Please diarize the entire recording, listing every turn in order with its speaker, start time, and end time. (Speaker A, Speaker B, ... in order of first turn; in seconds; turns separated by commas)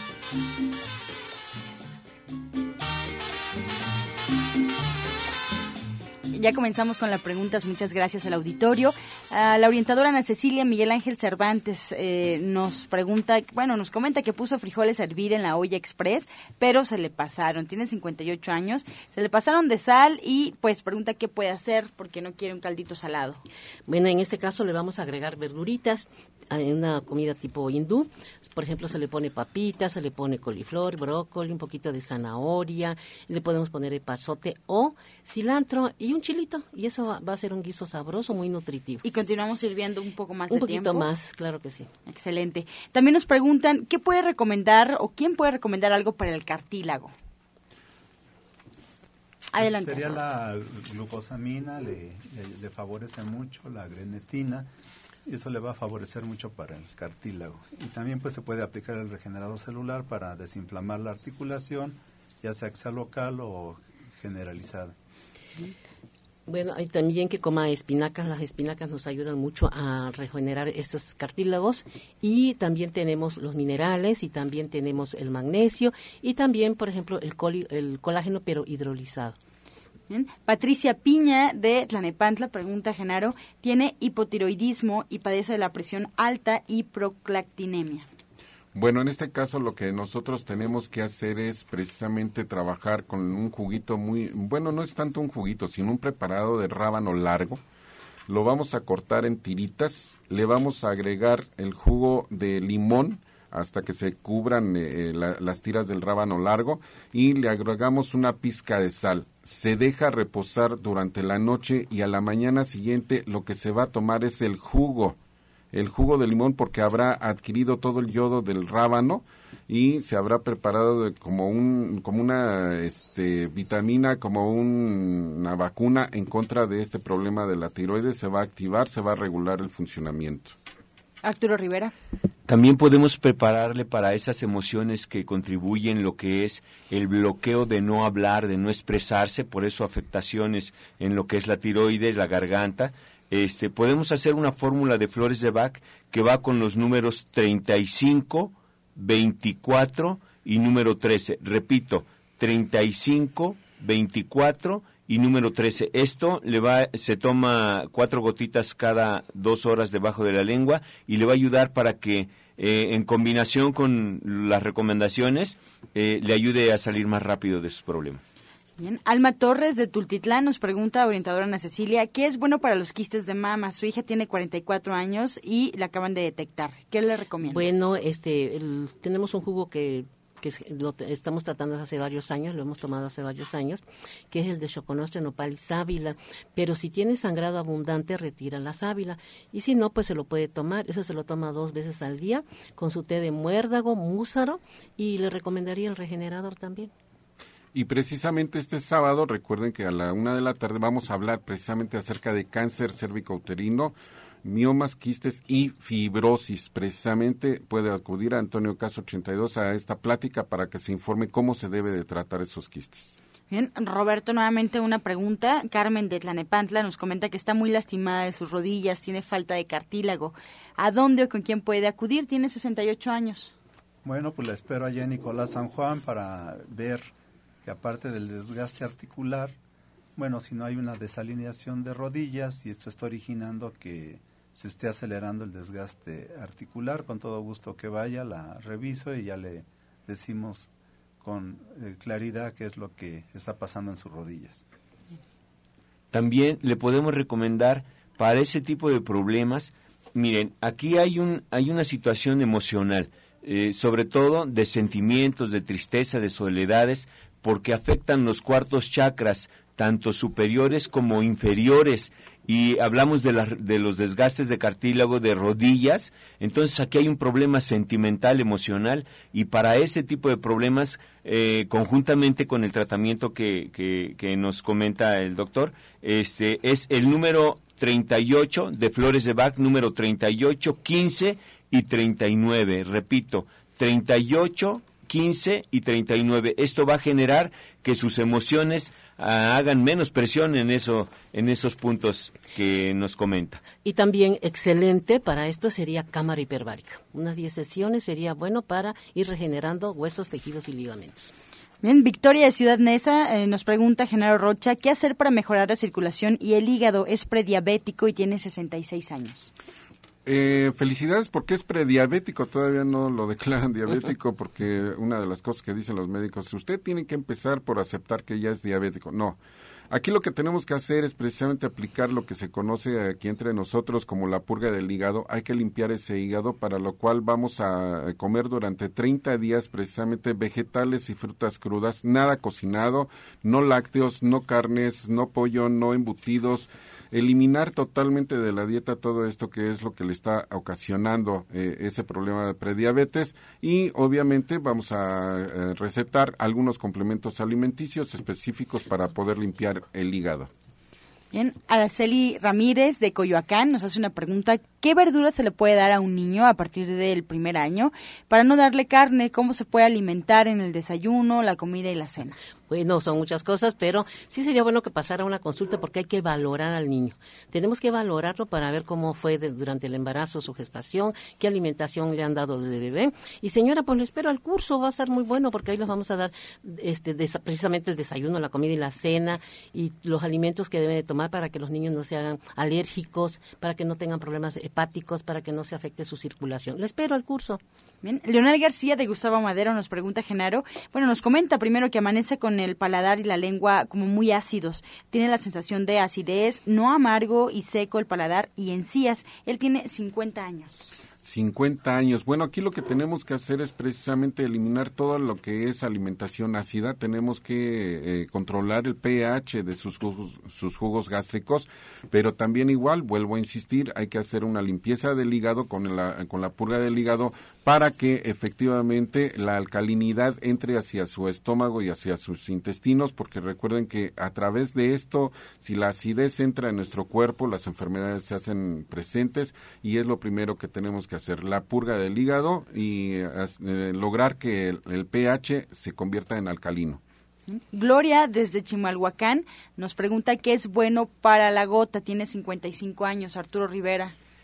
Speaker A: 6.3-23.4, Speaker B: 23.9-39.0, Speaker A: 39.0-41.1, Speaker B: 40.5-41.9, Speaker A: 42.1-47.1, Speaker A: 49.5-50.2, Speaker C: 49.6-54.7, Speaker C: 55.2-64.9, Speaker B: 66.5-79.4, Speaker A: 80.1-88.1, Speaker D: 88.7-97.6, Speaker D: 98.3-115.2, Speaker D: 115.7-130.5, Speaker A: 131.2-131.9, Speaker E: 132.5-168.2, Speaker A: 168.8-177.7, Speaker B: 177.4-196.9, Speaker D: 197.7-213.2, Speaker A: 213.5-223.5, Speaker C: 224.0-227.1, Speaker C: 227.6-229.5, Speaker C: 230.2-240.7, Speaker C: 241.2-244.6, Speaker E: 246.1-293.6, Speaker B: 293.8-301.3, Speaker A: 301.8-309.5, Speaker D: 310.2-319.4, Speaker D: 319.9-350.5, Speaker A: 351.3-362.4, Speaker B: 362.7-387.6, Speaker A: 388.0-400.8, Speaker D: 401.2-437.0, Speaker A: 437.5-444.1